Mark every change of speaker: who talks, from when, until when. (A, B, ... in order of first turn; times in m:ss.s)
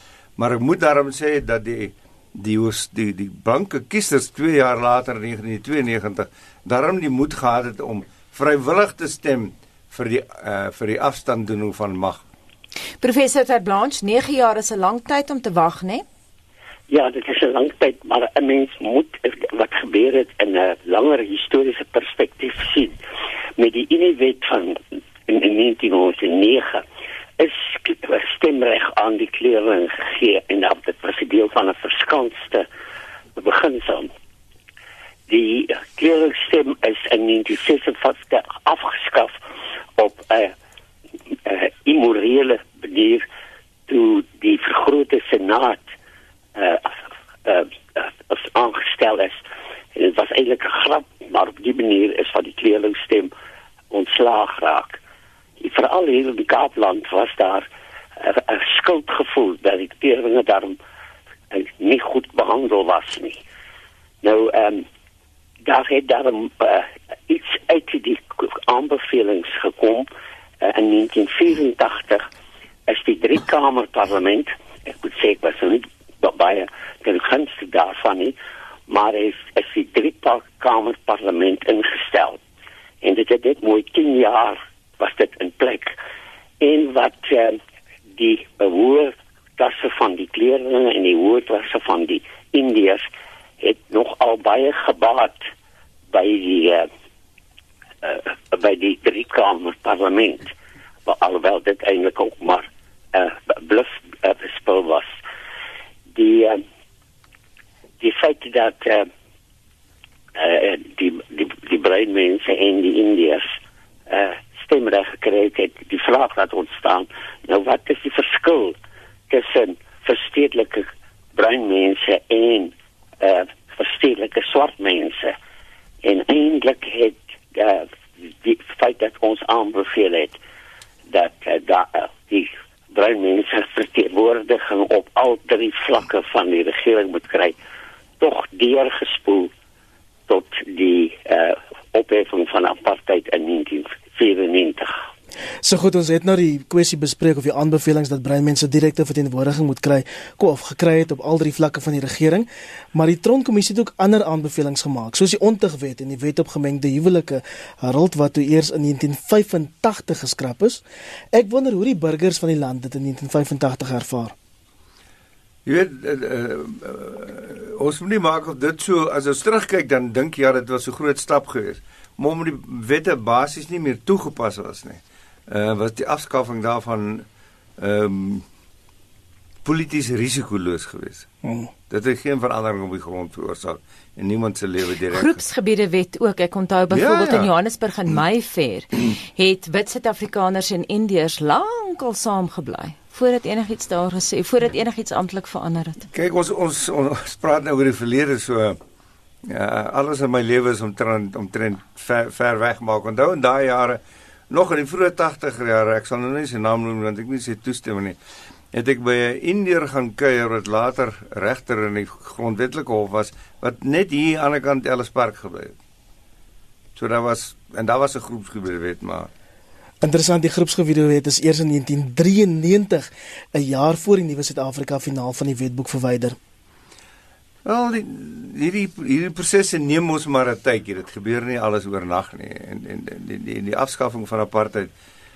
0:00.4-0:12.2 A
0:13.0-0:16.0 B
0:16.9-0:23.0 C
0:23.6-0:26.8 C
0:27.4-0:32.7 C
0:33.4-0:34.1 C
0:35.3-0:39.4 C
0:40.0-0:40.5 C
0:41.3-0:43.2 C
0:43.9-0:45.8 C
0:46.6-0:49.4 C
0:50.0-0:53.3 C
0:53.9-0:55.0 C
0:55.6-0:57.7 C
0:58.2-1:00.8 C
1:01.5-1:03.4 C
1:04.2-1:04.8 C
1:05.6-1:10.1 C
1:10.6-1:12.2 C
1:12.9-1:18.4 C
1:18.9-1:22.4 C
1:23.0-1:26.0 C
1:26.6-1:27.6 C
1:28.2-1:33.1 C
1:33.6-1:35.4 C
1:36.1-1:36.9 C
1:38.0-1:40.5 C
1:41.1-1:45.1 C
1:46.1-1:46.6 C
1:48.0-1:49.1 C
1:50.4-1:53.4 C
1:54.1-1:58.8 C
1:59.3-2:05.4 C
2:06.0-2:10.4 C
2:11.1-2:17.6 C
2:18.2-2:19.5 C
2:20.3-2:24.9 C
2:25.6-2:40.8 D
2:41.3-2:44.3 D
2:45.7-2:57.2 A
2:57.8-2:58.4 A
2:59.6-3:01.3 A
3:01.9-3:05.4 A
3:05.1-3:16.1 B
3:06.9-3:07.5 A
3:16.1-3:18.8 A
3:19.4-3:28.2 A
3:28.7-3:35.8 A
3:37.0-3:39.3 A
3:40.0-3:46.4 D
3:47.6-3:54.9 A